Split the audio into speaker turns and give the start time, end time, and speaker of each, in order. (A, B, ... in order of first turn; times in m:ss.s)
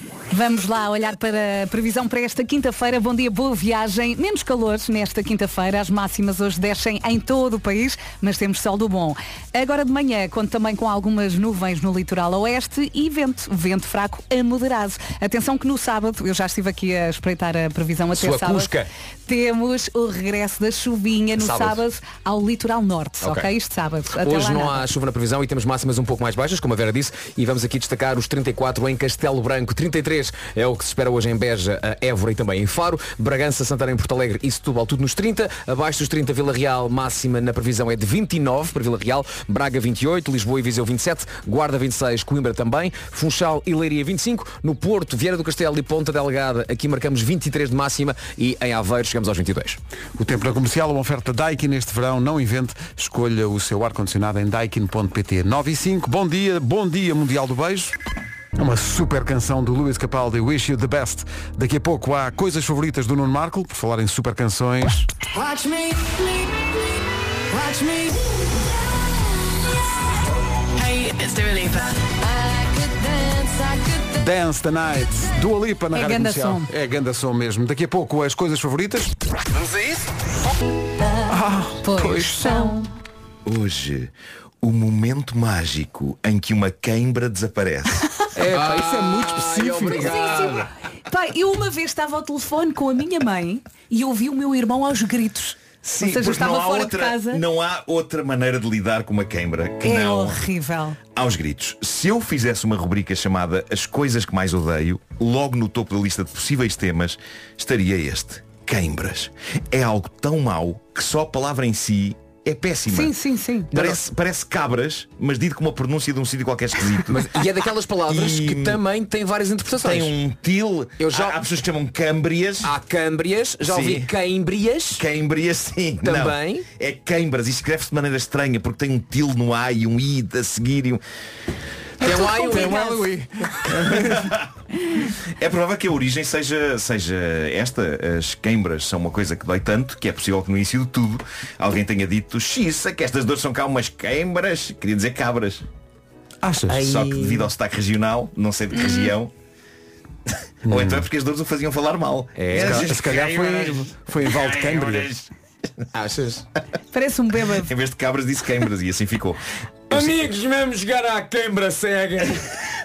0:00.3-0:18.7 A
0:18.1-0:18.9 B
0:19.3-0:24.8 A
0:21.4-0:21.8 B
0:23.2-0:23.5 B
0:24.1-0:49.8 B
0:50.2-0:58.0 C
0:58.6-1:05.1 C
1:05.3-1:06.7 D
1:07.5-1:08.3 D
1:10.7-1:14.2 D
1:14.2-1:19.1 C
1:15.9-1:16.7 A
1:21.3-1:22.8 C
1:21.8-1:22.9 A
1:23.4-1:28.0 E
1:28.3-1:30.2 C
1:28.5-1:30.7 B
1:29.9-1:37.4 A
1:35.8-1:40.4 E
1:39.8-1:41.0 A
1:41.1-1:53.1 E
1:52.9-1:53.7 A
1:53.7-1:54.0 B
1:53.7-1:57.3 E
1:57.0-2:00.2 B
1:58.1-1:58.8 E
1:59.8-2:02.7 E
2:01.0-2:01.4 B
2:02.6-2:05.0 B
2:03.6-2:04.1 E
2:05.0-2:11.0 E
2:06.0-2:06.6 B
2:12.0-2:13.0 B
2:12.0-2:13.1 A
2:12.0-2:14.3 C
2:13.8-2:14.5 E
2:15.4-2:25.6 E
2:26.4-2:26.9 C
2:26.7-2:27.5 B
2:26.8-2:29.3 E
2:30.7-2:31.0 C
2:30.7-2:35.3 E
2:32.4-2:33.0 B
2:32.5-2:35.1 C
2:35.9-2:36.4 B
2:36.9-2:37.7 A
2:37.6-2:40.2 E
2:39.9-2:42.5 B